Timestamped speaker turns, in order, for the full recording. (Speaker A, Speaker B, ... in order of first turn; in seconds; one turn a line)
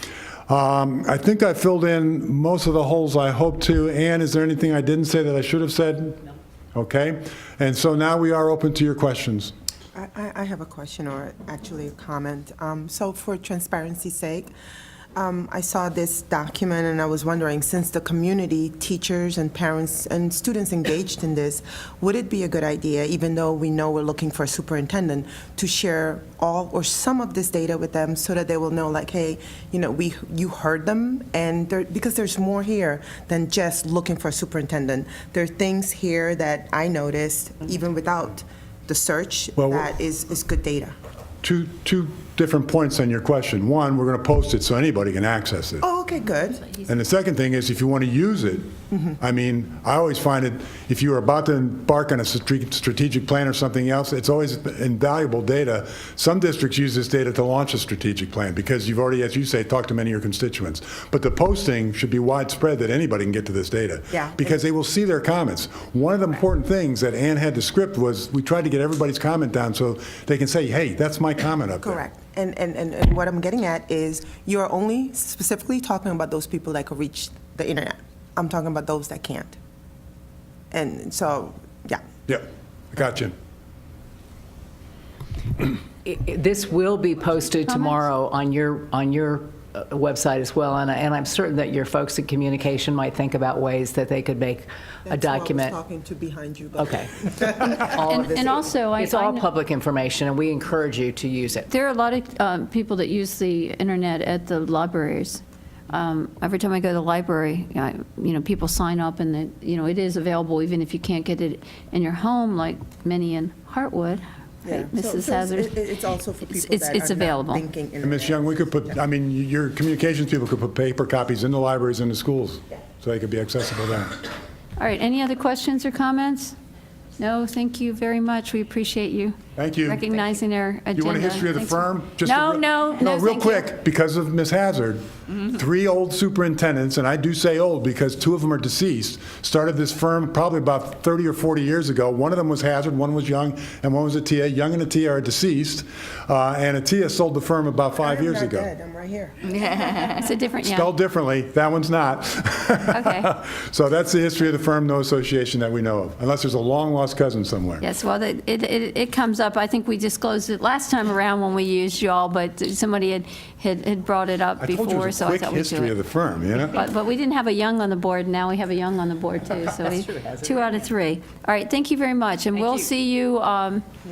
Speaker A: 0.5-6.2
Speaker A: 6.8-9.5
Speaker B: 9.9-14.5
Speaker B: 15.2-41.0
Speaker A: 39.6-39.9
Speaker A: 41.4-45.8
Speaker B: 45.8-46.7
Speaker A: 46.9-72.0
Speaker B: 64.1-64.6
Speaker B: 71.8-79.6
Speaker B: 80.7-82.0
Speaker A: 82.3-83.3
Speaker C: 86.0-95.8
Speaker D: 87.7-88.0
Speaker B: 95.1-98.6
Speaker C: 96.8-101.7
Speaker D: 98.0-99.5
Speaker D: 101.7-115.8
Speaker B: 114.6-119.0
Speaker D: 116.5-117.6
Speaker A: 118.0-124.2
Speaker D: 124.8-126.5
Speaker D: 127.2-133.7
Speaker A: 129.6-130.1
Speaker A: 130.9-148.7
Speaker B: 148.0-150.2
Speaker D: 150.1-150.9
Speaker A: 150.6-157.8
Speaker D: 152.9-153.3
Speaker D: 157.8-165.9
Speaker A: 164.6-166.8
Speaker D: 166.7-173.8